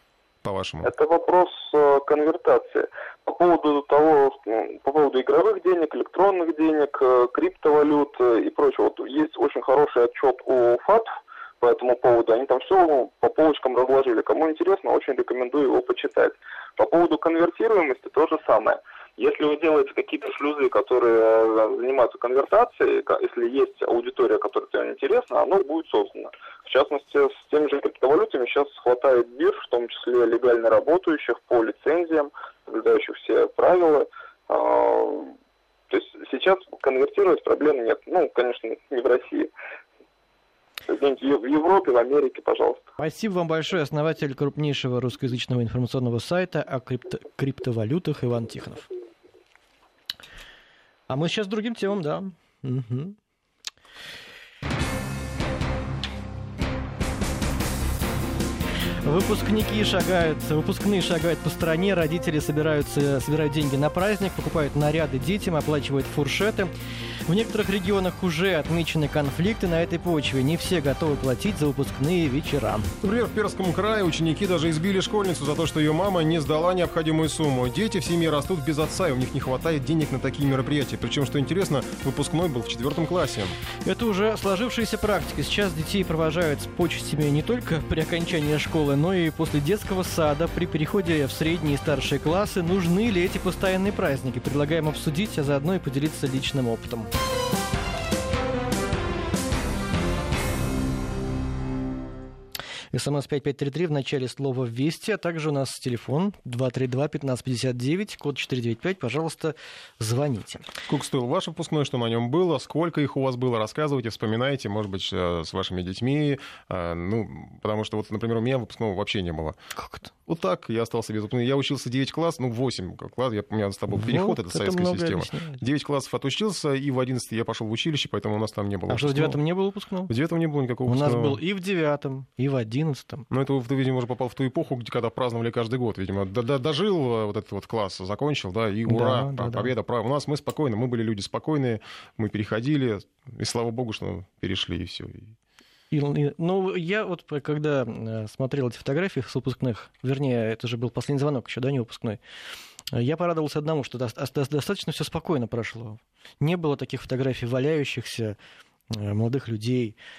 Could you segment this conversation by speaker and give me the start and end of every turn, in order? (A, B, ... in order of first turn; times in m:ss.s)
0:00.4-0:00.9 A
0:00.8-0:35.3 B
0:35.9-0:39.5 B
0:40.9-0:42.9 B
0:43.0-0:48.8 C
0:51.1-0:53.2 C
0:59.0-1:06.7 C
1:07.3-1:12.9 C
1:13.0-1:23.6 A
1:23.8-1:37.1 C
1:42.9-1:50.6 C
1:50.9-1:59.6 A
1:59.7-2:00.1 C
2:00.3-2:09.4 A
2:03.9-2:05.6 C
2:08.9-2:10.1 C
2:10.1-2:11.4 A
2:10.9-2:13.2 C
2:13.3-2:25.3 A
2:18.9-2:19.7 C
2:25.9-2:32.2 C
2:32.9-2:38.4 C
2:38.9-2:40.0 C